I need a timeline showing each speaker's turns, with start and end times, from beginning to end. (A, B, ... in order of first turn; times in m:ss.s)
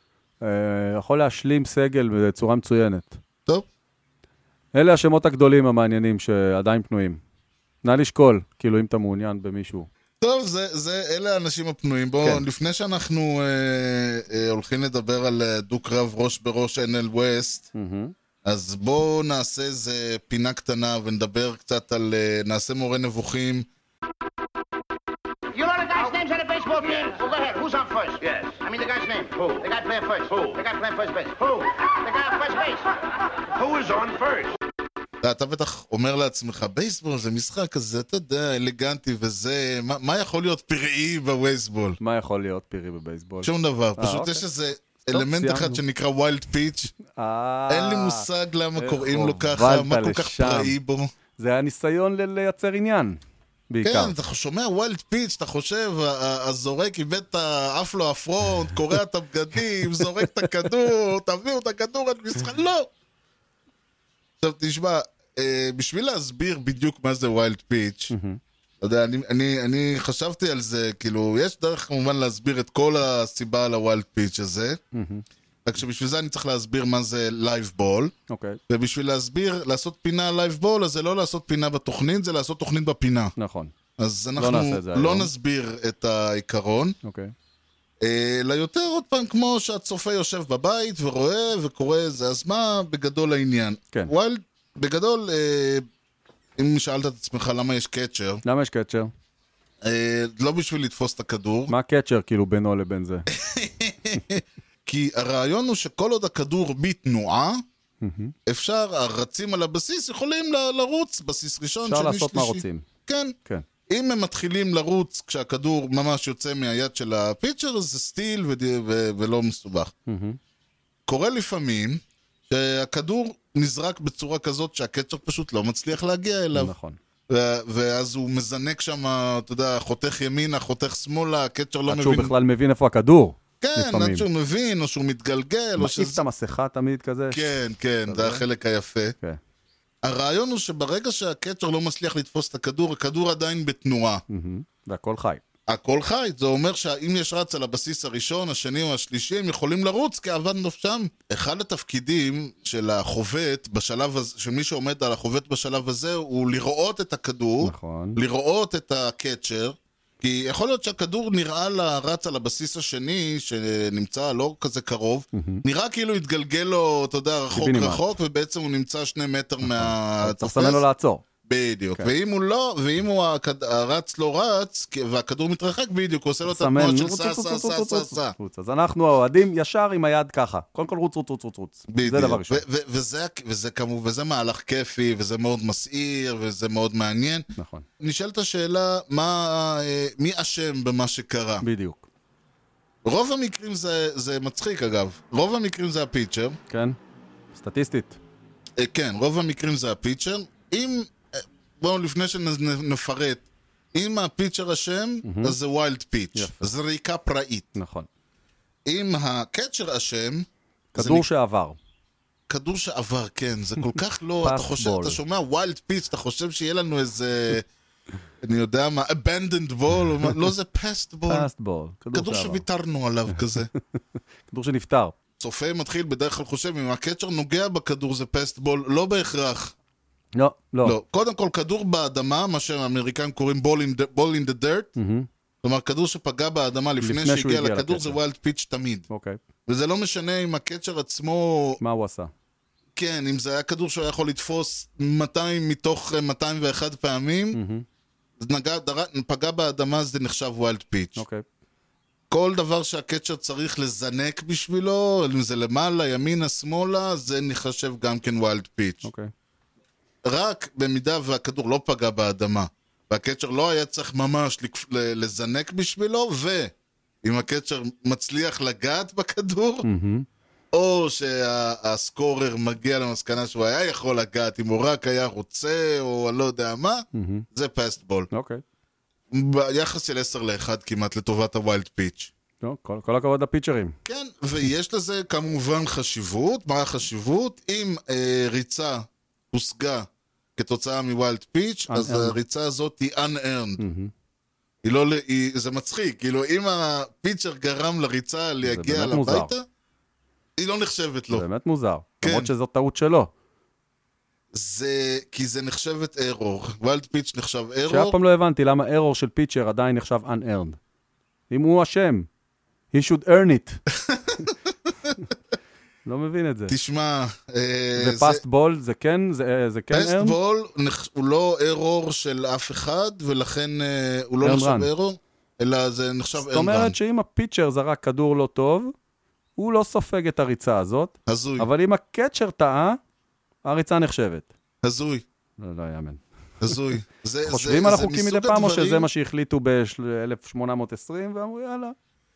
0:00.4-0:03.2 A
0:04.7-0:07.2 A
0:07.8-0:09.9 A
0:10.2-0:17.7 B
0:17.8-0:18.1 A
0:18.4-0:23.7 B
0:25.5-0:33.0 C
0:33.5-0:34.6 C
0:35.2-0:42.0 B
0:42.0-0:44.4 A
0:43.4-0:47.0 B
0:45.1-0:45.8 A
0:47.0-0:50.8 A
0:47.7-0:51.1 B
0:51.4-0:54.1 A
0:53.8-1:02.9 B
1:04.4-1:08.1 B
1:08.1-1:08.4 A
1:08.8-1:14.8 B
1:14.9-1:15.2 A
1:15.7-1:18.1 B
1:18.3-1:18.6 A
1:18.7-1:23.4 B
1:23.4-1:23.7 A
1:24.0-1:27.0 B
1:24.4-1:25.3 A
1:27.0-1:27.3 A
1:28.0-1:35.9 B
1:36.6-1:38.4 B
1:38.4-1:39.1 A
1:39.8-1:41.7 B
1:41.7-1:43.3 A
1:43.3-1:47.6 B
1:48.0-1:48.4 A
1:48.5-1:53.4 B
1:51.8-1:52.9 A
1:53.9-1:59.9 B
2:00.1-2:00.4 A
2:01.1-2:06.7 B
2:06.5-2:07.0 A
2:07.3-2:12.3 B
2:11.9-2:14.3 A
2:13.6-2:16.2 B
2:15.8-2:17.5 A
2:17.3-2:19.2 B
2:18.1-2:18.4 A
2:20.0-2:24.2 B
2:24.3-2:25.4 A
2:25.7-2:50.8 B
2:37.6-2:38.2 A
2:45.3-2:45.6 A
2:47.5-2:48.1 A
2:49.6-2:51.2 A
2:51.4-2:58.3 B
2:56.5-3:02.6 A
3:01.9-3:07.5 B
3:07.6-3:07.9 A
3:08.0-3:11.7 B
3:11.6-3:12.1 A
3:13.0-3:16.6 B
3:16.7-3:17.0 A
3:17.5-3:18.2 A
3:18.8-3:27.7 B
3:25.2-3:25.6 A
3:26.4-3:26.7 A
3:27.8-3:28.1 A
3:28.9-3:31.3 B
3:30.9-3:31.8 A
3:32.5-3:37.7 B
3:34.4-3:35.2 A
3:38.4-3:41.5 B
3:41.3-3:42.6 A
3:42.1-3:43.7 B
3:43.3-3:43.8 A
3:44.5-3:45.2 A
3:45.4-3:49.7 B
3:50.4-3:51.0 A
3:50.8-3:54.9 B
3:55.0-3:55.3 A
3:55.6-3:59.0 B
3:57.0-3:58.2 A
3:59.1-3:59.4 A
3:59.7-4:01.8 B
4:01.8-4:02.3 A
4:03.0-4:07.6 B
4:07.5-4:07.9 A
4:08.4-4:11.2 B
4:11.2-4:11.4 A
4:12.3-4:19.1 B
4:19.0-4:19.3 A
4:20.2-4:29.9 B
4:29.8-4:30.3 A
4:30.7-4:38.3 B
4:37.1-4:37.5 A
4:38.3-4:38.6 A
4:39.3-4:42.3 B
4:42.6-4:44.0 A
4:44.0-4:53.8 B
4:51.9-4:52.4 A
4:53.8-4:54.1 A
4:54.8-4:59.6 B
4:58.6-4:59.5 A
5:00.6-5:01.4 B
5:01.3-5:03.3 A
5:02.2-5:02.5 B
5:04.5-5:08.2 B
5:07.9-5:10.8 A
5:11.5-5:12.3 A
5:12.9-5:13.8 A
5:14.1-5:14.5 B
5:16.0-5:16.7 A
5:16.7-5:18.4 B
5:18.0-5:20.4 A
5:19.9-5:27.0 B
5:24.4-5:24.9 A
5:26.4-5:28.9 A
5:29.6-5:33.0 A
5:31.3-5:31.7 B
5:33.6-5:34.5 A
5:34.8-5:35.2 B
5:35.6-5:36.7 A
5:36.6-5:39.1 B
5:37.4-5:42.0 A